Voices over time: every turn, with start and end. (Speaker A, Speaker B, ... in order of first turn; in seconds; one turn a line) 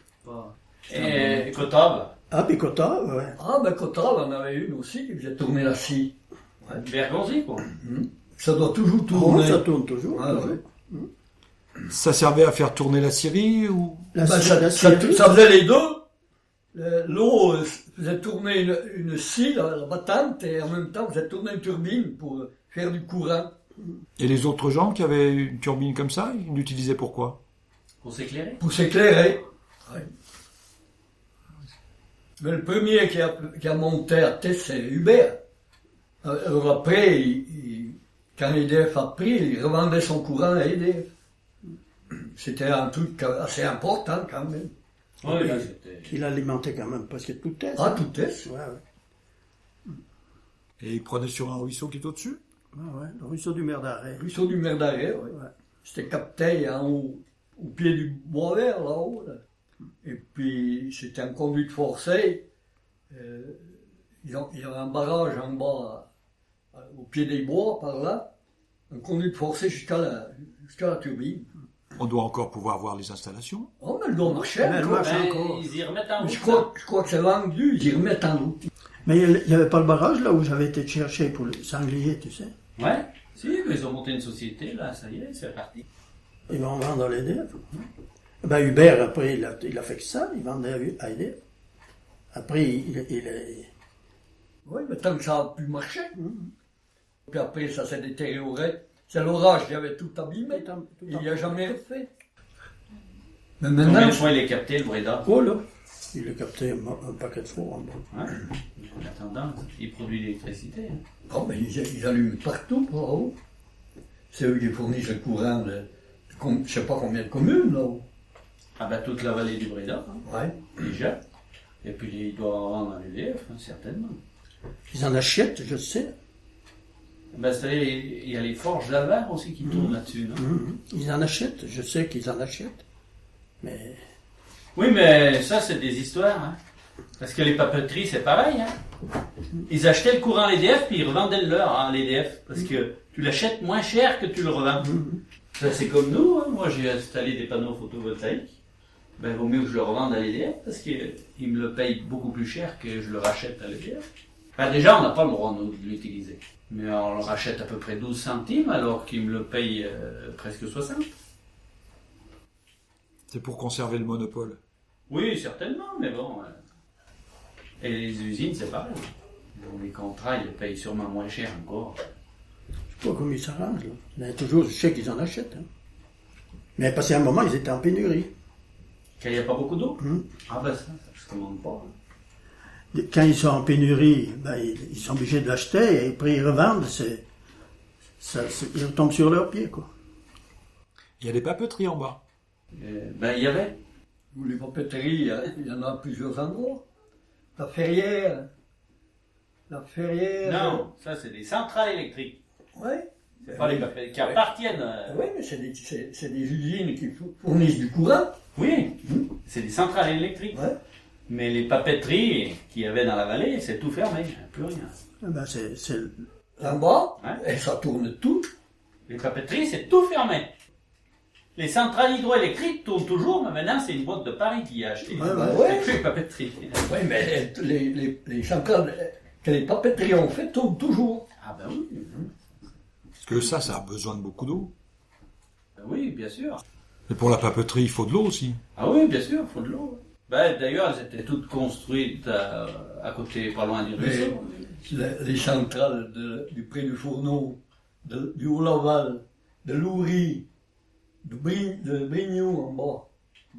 Speaker A: 0.3-2.1
Speaker B: 2.3-3.4
Speaker C: 3.4-6.8
Speaker A: 6.8-7.7
Speaker C: 7.8-10.6
Speaker B: 9.1-11.1
Speaker D: 11.9-14.1
Speaker B: 14.1-15.3
Speaker C: 14.2-16.0
Speaker C: 16.7-23.5
Speaker D: 24.2-27.4
Speaker A: 28.0-28.6
Speaker C: 28.6-30.1
Speaker C: 32.4-35.4
Speaker C: 36.2-41.1
Speaker C: 42.1-44.7
Speaker A: 45.2-46.1
Speaker C: 45.2-45.6
Speaker B: 46.0-48.8
Speaker C: 47.8-48.5
Speaker D: 50.8-52.4
Speaker B: 52.7-54.2
Speaker C: 54.2-59.4
Speaker C: 60.0-62.4
Speaker C: 63.1-66.1
Speaker C: 66.7-68.3
Speaker C: 68.9-71.5
Speaker D: 72.0-73.7
Speaker C: 73.8-75.1
Speaker B: 74.3-75.7
Speaker A: 75.0-76.7
Speaker C: 76.2-78.7
Speaker B: 79.0-82.5
Speaker A: 82.8-85.8
Speaker B: 86.5-87.8
Speaker B: 88.4-91.4
Speaker B: 92.3-93.7
Speaker C: 94.6-96.1
Speaker B: 96.2-96.5
Speaker C: 97.3-102.1
Speaker B: 100.5-101.7
Speaker C: 103.6-104.2
Speaker A: 103.8-105.3
Speaker B: 105.2-108.1
Speaker A: 108.1-111.0
Speaker C: 111.3-113.3
Speaker C: 114.3-118.0
Speaker A: 118.8-121.2
Speaker C: 120.3-120.7
Speaker A: 121.8-124.2
Speaker B: 124.9-126.1
Speaker A: 127.3-130.4
Speaker B: 129.6-132.8
Speaker B: 133.6-134.0
Speaker A: 134.8-136.6
Speaker A: 137.2-138.7
Speaker A: 139.7-144.9
Speaker B: 144.8-145.2
Speaker A: 145.6-148.5
Speaker A: 149.2-154.0
Speaker A: 154.6-161.1
Speaker D: 163.3-164.6
Speaker A: 165.1-166.5
Speaker A: 167.8-172.0
Speaker B: 172.9-175.7
Speaker B: 176.8-178.3
Speaker A: 179.2-181.9
Speaker B: 180.0-180.2
Speaker B: 182.9-187.2
Speaker B: 188.2-189.9
Speaker D: 191.2-192.2
Speaker A: 192.7-193.8
Speaker C: 194.3-196.8
Speaker C: 197.6-198.5
Speaker C: 199.7-200.8
Speaker A: 200.4-202.4
Speaker C: 202.8-204.4
Speaker A: 203.4-205.2
Speaker C: 205.1-208.3
Speaker A: 208.5-210.6
Speaker A: 211.3-214.9
Speaker B: 215.2-216.8
Speaker C: 216.6-218.5
Speaker A: 219.1-220.5
Speaker A: 221.6-226.9
Speaker B: 225.1-225.6
Speaker C: 225.2-225.9
Speaker C: 226.8-231.2
Speaker A: 231.4-232.3
Speaker D: 233.2-234.7
Speaker A: 235.8-236.6
Speaker D: 237.1-238.6
Speaker A: 238.8-244.7
Speaker C: 244.0-250.4
Speaker C: 251.2-253.1